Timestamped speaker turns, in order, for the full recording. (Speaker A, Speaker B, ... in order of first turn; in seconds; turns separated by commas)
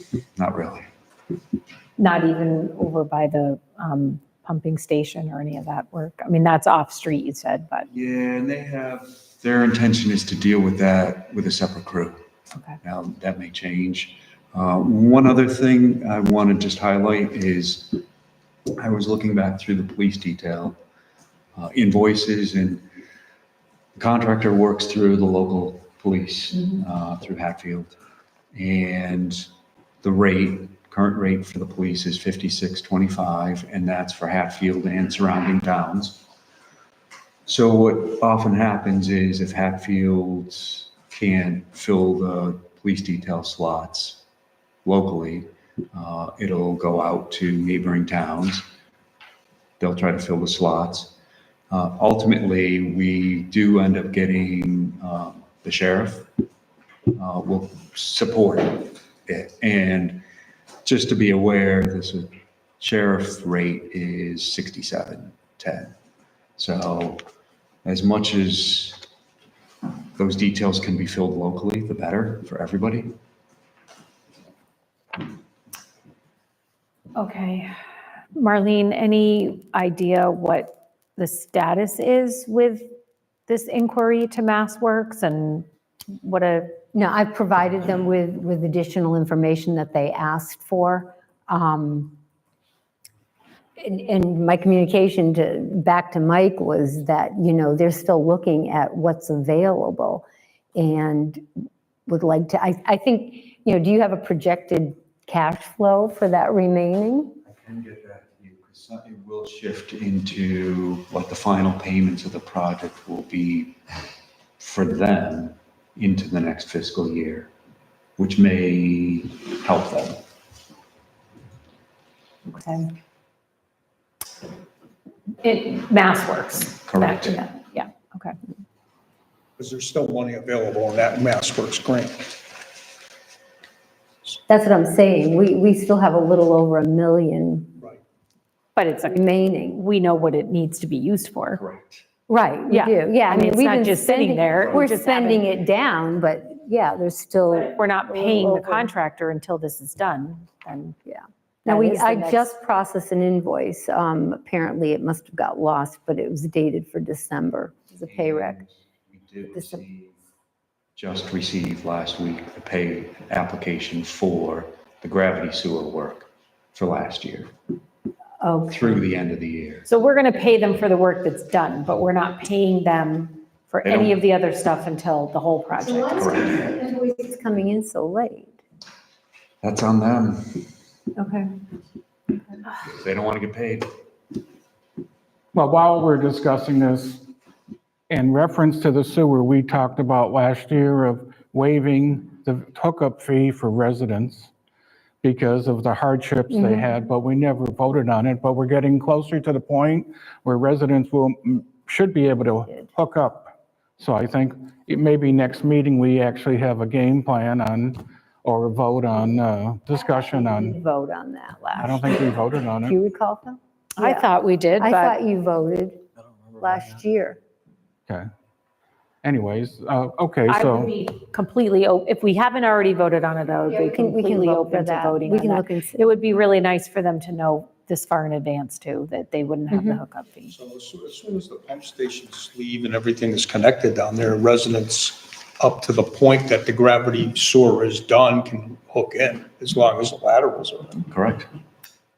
Speaker A: 0.3-0.9, Speaker B: 2.0-7.9, Speaker A: 7.9-12.2, Speaker A: 12.8-18.0, Speaker A: 18.8-20.8, Speaker A: 21.6-22.9, Speaker A: 24.0-28.0, Speaker A: 28.6-29.5, Speaker A: 30.0-36.2, Speaker A: 37.5-44.2, Speaker A: 44.9-48.6, Speaker A: 49.8-51.1, Speaker A: 51.7-56.3, Speaker A: 57.1-60.2, Speaker A: 60.9-65.9, Speaker A: 66.6-67.2, Speaker A: 67.8-69.0, Speaker A: 70.2-73.1, Speaker B: 77.2-77.7, Speaker B: 78.3-82.9, Speaker B: 83.5-86.8, Speaker C: 86.9-92.2, Speaker C: 93.8-100.2, Speaker C: 100.8-101.4, Speaker C: 102.1-107.4, Speaker A: 107.5-113.8, Speaker A: 114.6-117.5, Speaker A: 118.2-120.2, Speaker B: 122.5-122.9, Speaker B: 125.4-128.4, Speaker A: 126.9-127.4, Speaker D: 129.6-132.4, Speaker C: 134.5-137.8, Speaker B: 138.8-141.6, Speaker C: 139.1-139.8, Speaker A: 141.5-142.0, Speaker C: 142.3-148.9, Speaker B: 142.7-145.5, Speaker B: 147.6-151.0, Speaker C: 151.1-158.6, Speaker B: 151.7-152.5, Speaker A: 158.0-160.2, Speaker A: 161.0-167.5, Speaker B: 168.4-168.7, Speaker A: 168.7-169.9, Speaker B: 169.9-176.4, Speaker A: 173.8-174.2, Speaker C: 175.8-178.6, Speaker A: 176.1-176.9, Speaker A: 179.6-180.7, Speaker B: 181.2-181.5, Speaker A: 182.8-183.9, Speaker E: 185.5-187.2, Speaker E: 188.1-194.5, Speaker E: 195.2-210.8, Speaker C: 196.5-196.8, Speaker C: 209.9-217.4, Speaker E: 211.8-212.9, Speaker B: 214.0-215.2, Speaker E: 219.2-220.9, Speaker B: 220.5-230.5, Speaker C: 223.7-226.0, Speaker C: 229.7-230.0, Speaker D: 230.5-241.1, Speaker A: 241.1-241.5